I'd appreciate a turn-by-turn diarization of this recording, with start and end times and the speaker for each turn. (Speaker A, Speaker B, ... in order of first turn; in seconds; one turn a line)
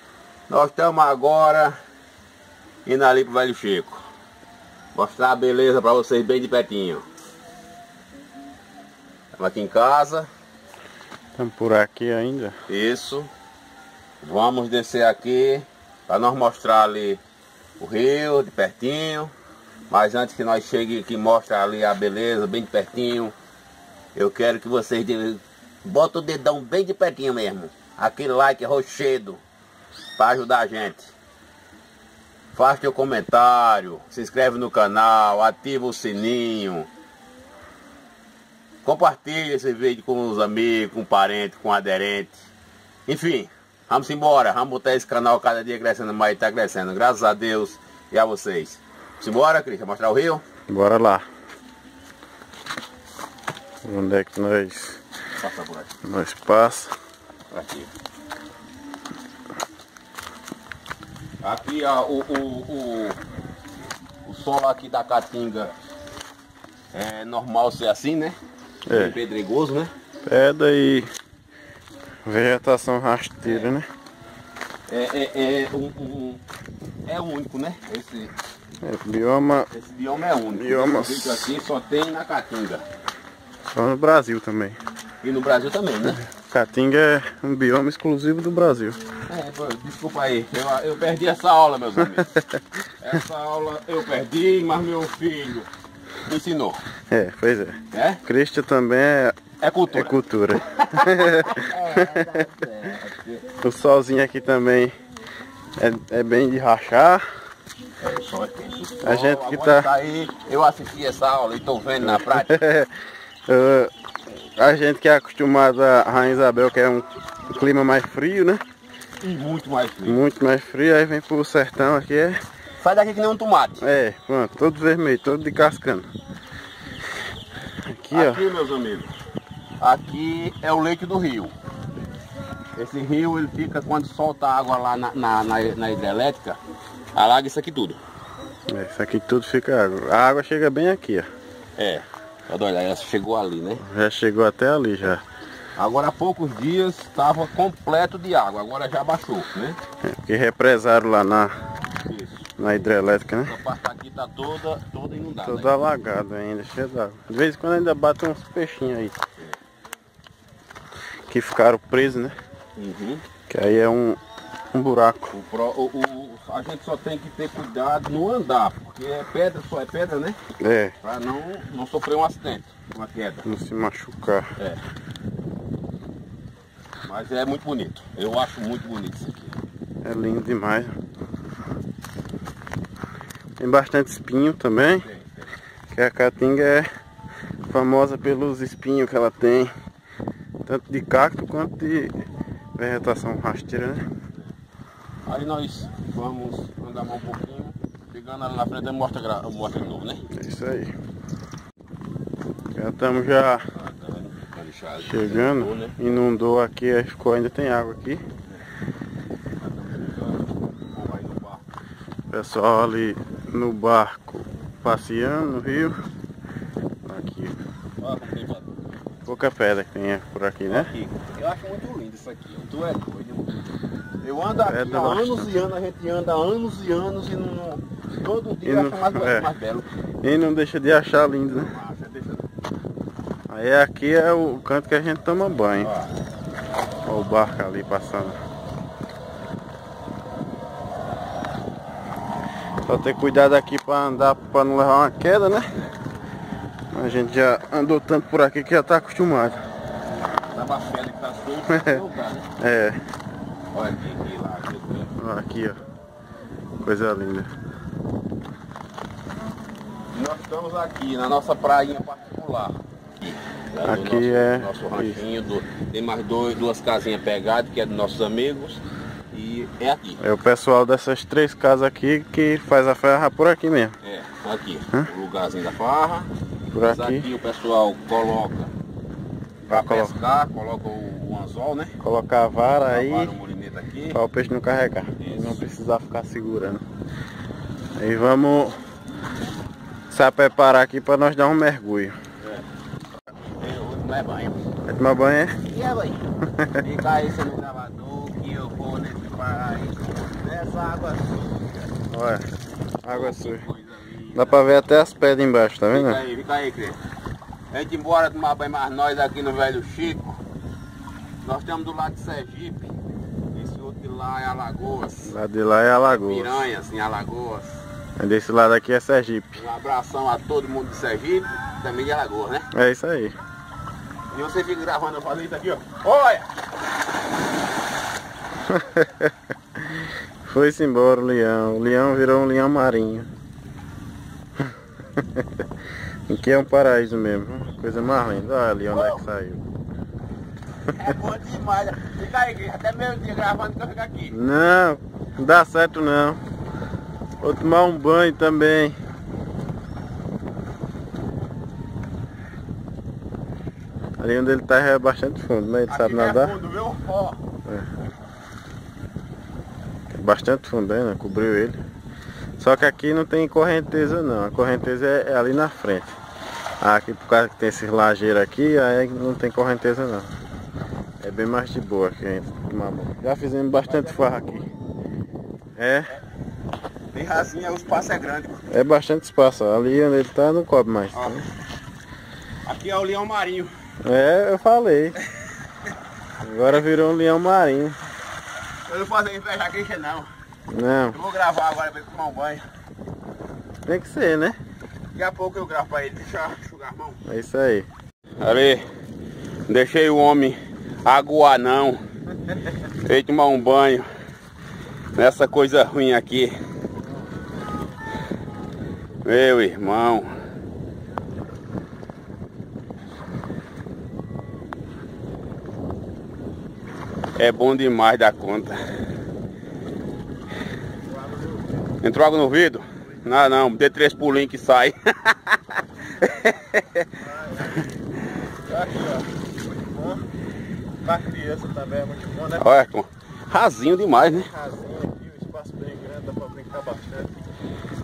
Speaker A: 0.5-1.8
Speaker A: 2.9-4.0
Speaker A: 5.0-7.0
Speaker A: 9.4-10.3
Speaker B: 11.4-12.6
Speaker A: 12.7-13.3
Speaker A: 14.2-17.2
Speaker A: 17.8-19.3
Speaker A: 19.9-23.4
Speaker A: 24.1-29.4
Speaker A: 30.2-31.1
Speaker A: 32.5-36.9
Speaker A: 38.8-42.4
Speaker A: 43.1-50.4
Speaker B: 50.7-51.2
Speaker B: 53.9-55.0
Speaker A: 55.4-55.9
Speaker B: 56.0-56.9
Speaker A: 57.5-57.9
Speaker A: 61.4-63.2
Speaker A: 64.2-65.7
Speaker A: 66.9-68.4
Speaker B: 68.9-69.2
Speaker A: 68.9-69.9
Speaker B: 70.2-71.1
Speaker B: 72.3-73.9
Speaker A: 73.4-73.7
Speaker A: 74.9-76.4
Speaker A: 77.1-78.3
Speaker B: 78.8-79.7
Speaker A: 79.7-82.8
Speaker B: 80.5-81.5
Speaker B: 83.8-84.8
Speaker A: 85.2-86.2
Speaker B: 86.3-89.0
Speaker A: 89.3-92.3
Speaker A: 93.0-95.7
Speaker A: 96.3-96.8
Speaker B: 97.1-99.4
Speaker A: 97.9-98.2
Speaker A: 99.6-100.1
Speaker B: 99.9-102.2
Speaker A: 100.8-103.4
Speaker B: 103.6-105.0
Speaker B: 105.8-107.2
Speaker A: 108.0-112.6
Speaker B: 109.0-109.9
Speaker B: 112.2-112.9
Speaker B: 113.5-113.9
Speaker B: 114.6-118.6
Speaker A: 119.2-120.2
Speaker B: 120.1-122.4
Speaker A: 122.8-123.8
Speaker B: 123.8-126.1
Speaker B: 127.9-128.5
Speaker A: 128.1-129.1
Speaker A: 129.8-131.6
Speaker A: 132.8-136.6
Speaker A: 137.2-138.0
Speaker B: 138.7-141.3
Speaker A: 141.8-143.8
Speaker B: 143.8-145.2
Speaker A: 145.8-149.8
Speaker B: 150.0-151.5
Speaker A: 152.0-152.5
Speaker B: 152.6-153.5
Speaker A: 153.4-155.8
Speaker B: 155.4-159.2
Speaker B: 161.3-162.3
Speaker A: 162.8-163.2
Speaker B: 163.5-164.2
Speaker B: 164.7-165.3
Speaker A: 165.3-170.4
Speaker B: 170.6-170.9
Speaker A: 171.0-173.5
Speaker B: 173.4-174.5
Speaker A: 177.1-179.6
Speaker B: 180.0-180.9
Speaker B: 183.6-185.1
Speaker A: 185.0-185.5
Speaker B: 185.9-186.9
Speaker B: 187.7-189.7
Speaker B: 190.7-192.2
Speaker B: 192.8-194.1
Speaker A: 195.3-200.3
Speaker B: 200.3-200.9
Speaker B: 202.8-203.7
Speaker A: 203.7-206.0
Speaker B: 205.0-208.2
Speaker A: 209.6-211.6
Speaker B: 212.3-215.9
Speaker B: 217.1-217.6
Speaker A: 218.0-218.8
Speaker B: 219.3-220.9
Speaker A: 220.7-223.7
Speaker A: 224.2-229.9
Speaker B: 224.6-225.5
Speaker B: 228.7-229.5
Speaker B: 230.2-231.7
Speaker A: 231.5-232.5
Speaker B: 233.5-235.9
Speaker A: 235.8-236.2
Speaker B: 237.1-238.4
Speaker B: 242.9-245.7
Speaker B: 246.9-249.6
Speaker A: 250.5-252.5
Speaker B: 252.6-253.0
Speaker A: 253.7-255.1
Speaker B: 255.2-255.8
Speaker B: 256.8-257.5
Speaker A: 260.1-270.2
Speaker B: 263.9-265.2
Speaker B: 270.2-274.0
Speaker A: 274.0-276.3
Speaker B: 276.7-277.3
Speaker A: 276.9-278.7
Speaker B: 279.7-280.2
Speaker A: 279.7-282.0
Speaker B: 282.0-283.3
Speaker A: 282.9-284.2
Speaker B: 284.1-286.8
Speaker A: 285.2-285.6
Speaker B: 288.0-288.8
Speaker B: 290.1-292.1
Speaker A: 293.6-294.6
Speaker B: 294.9-295.6
Speaker A: 295.7-296.2
Speaker A: 296.8-301.9
Speaker B: 302.1-302.5
Speaker B: 303.0-303.6
Speaker A: 303.1-304.8
Speaker B: 304.4-306.2
Speaker A: 305.9-307.0
Speaker A: 307.7-310.4
Speaker A: 311.4-312.9
Speaker A: 313.5-315.3
Speaker B: 315.2-316.7
Speaker A: 316.1-317.8
Speaker B: 318.2-319.6
Speaker A: 319.6-322.7
Speaker B: 322.7-323.4
Speaker A: 324.3-326.5
Speaker B: 328.7-329.3
Speaker B: 329.8-333.3
Speaker B: 335.2-335.6
Speaker B: 336.3-339.6
Speaker A: 338.9-339.2
Speaker A: 340.9-344.4
Speaker B: 344.3-346.4
Speaker B: 347.4-349.0
Speaker B: 354.2-356.6
Speaker A: 355.9-357.4
Speaker B: 360.1-361.8
Speaker B: 362.6-366.1
Speaker B: 366.8-370.3
Speaker B: 371.2-374.6
Speaker A: 373.9-374.8
Speaker B: 375.8-376.1
Speaker A: 377.1-378.6
Speaker B: 378.7-381.5
Speaker A: 381.1-381.4
Speaker A: 382.6-383.7
Speaker B: 384.0-385.2
Speaker B: 386.4-388.0
Speaker A: 388.9-390.3
Speaker B: 390.7-391.1
Speaker A: 391.1-392.6
Speaker B: 393.9-394.6
Speaker A: 395.1-397.2
Speaker B: 397.3-397.9
Speaker A: 398.4-398.8
Speaker A: 399.7-402.0
Speaker A: 403.0-404.1
Speaker A: 405.1-406.6
Speaker A: 409.2-410.3
Speaker A: 417.4-418.8
Speaker A: 422.0-427.1
Speaker B: 427.4-427.7
Speaker B: 428.7-430.2
Speaker B: 431.0-432.6
Speaker A: 432.6-434.5
Speaker B: 434.3-437.3